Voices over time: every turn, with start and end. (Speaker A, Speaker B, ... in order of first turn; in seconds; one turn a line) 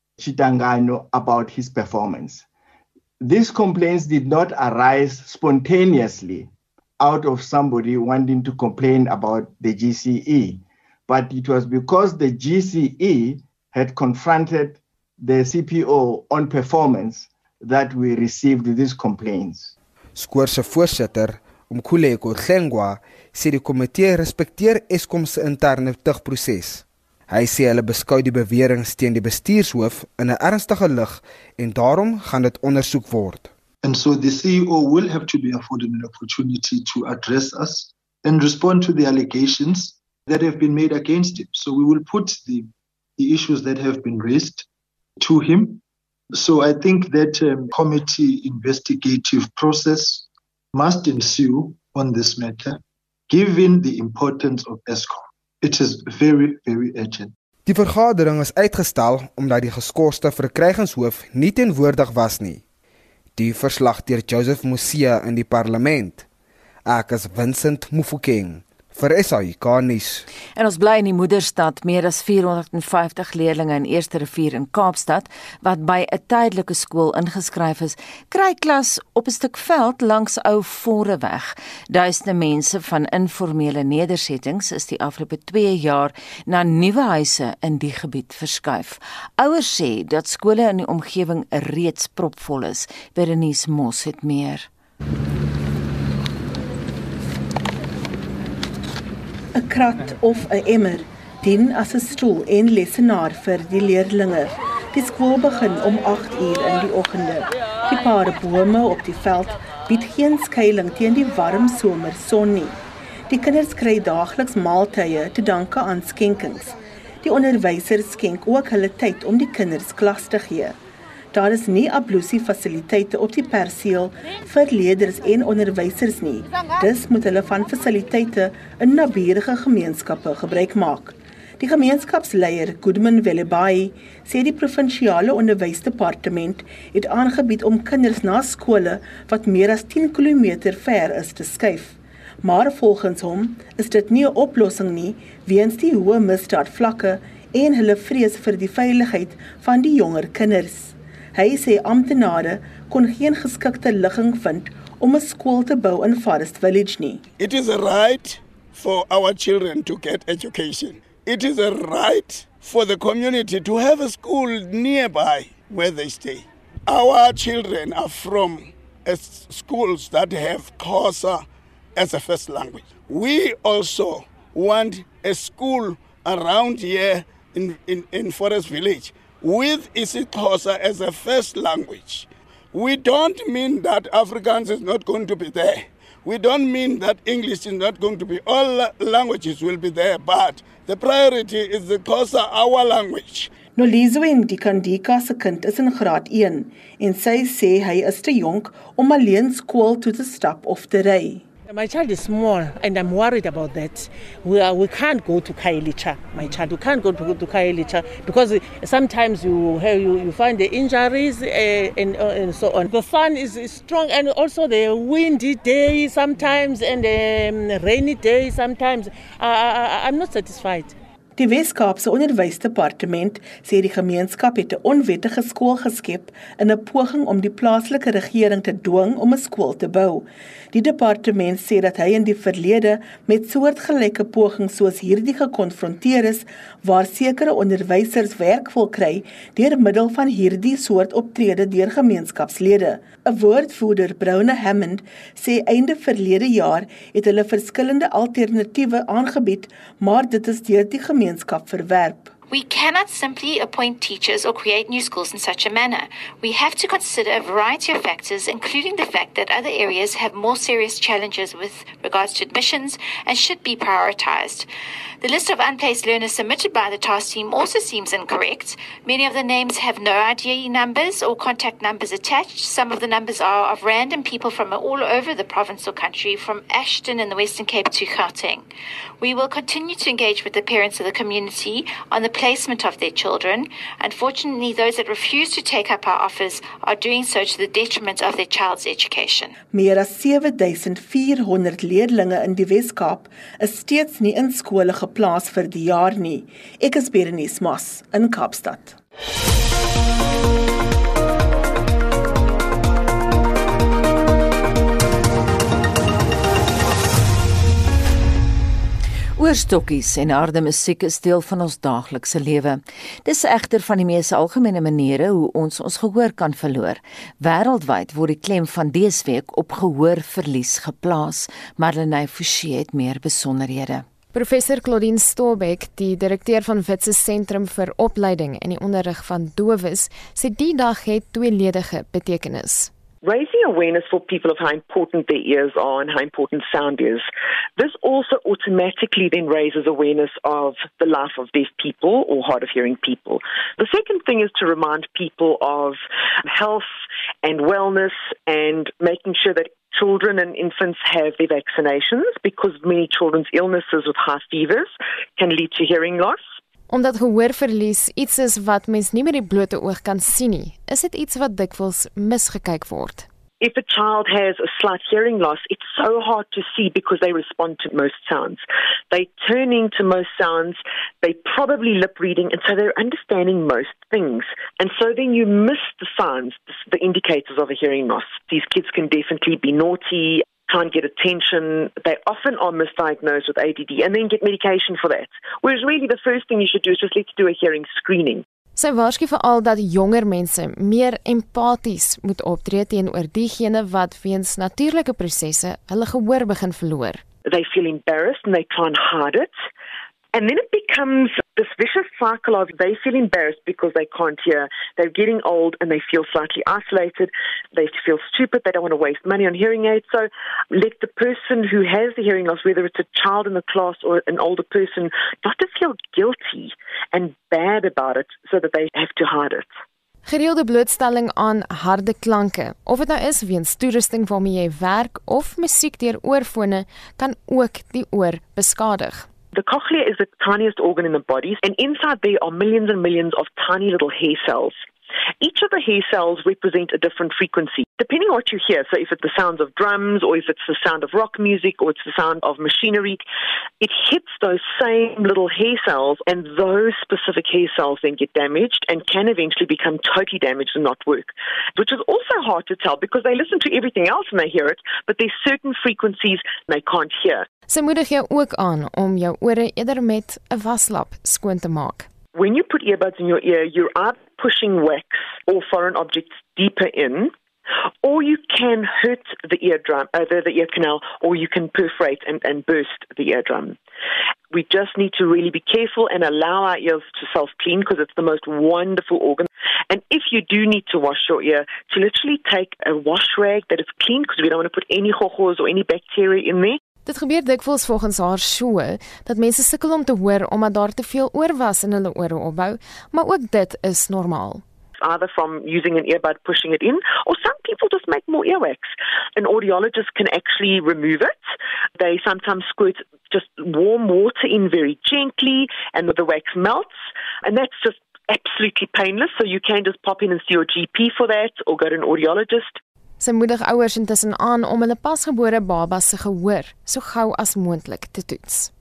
Speaker A: 0.2-2.5
Speaker A: 3.2-19.7
Speaker B: 20.2-33.5
Speaker C: 33.8-44.7
Speaker C: 45.2-57.3
Speaker B: 57.7-62.6
Speaker B: 63.4-66.2
Speaker B: 66.8-70.2
Speaker D: 70.6-94.7
Speaker E: 99.5-120.8
Speaker E: 121.3-157.2
Speaker F: 157.4-193.5
Speaker E: 193.8-201.4
Speaker G: 201.7-220.9
Speaker E: 221.4-252.3
Speaker H: 252.5-264.7
Speaker H: 265.2-278.7
Speaker H: 279.2-289.5
Speaker E: 289.7-299.0
Speaker D: 309.4-324.1
Speaker I: 324.3-332.9
Speaker J: 333.2-337.3
Speaker J: 337.8-346.9
Speaker J: 347.4-356.4
Speaker I: 356.9-363.3
Speaker J: 363.6-388.4
Speaker I: 388.8-397.2
Speaker J: 397.5-399.6
Speaker J: 400.3-419.7
Speaker I: 420.2-429.3
Speaker J: 429.5-434.8
Speaker J: 435.4-443.2
Speaker J: 443.8-457.5
Speaker I: 457.7-462.1
Speaker J: 462.3-467.3
Speaker J: 468.0-473.8
Speaker J: 474.5-486.8
Speaker I: 487.1-494.6
Speaker J: 495.0-501.4
Speaker J: 502.0-506.9
Speaker J: 507.4-512.8
Speaker I: 513.2-518.7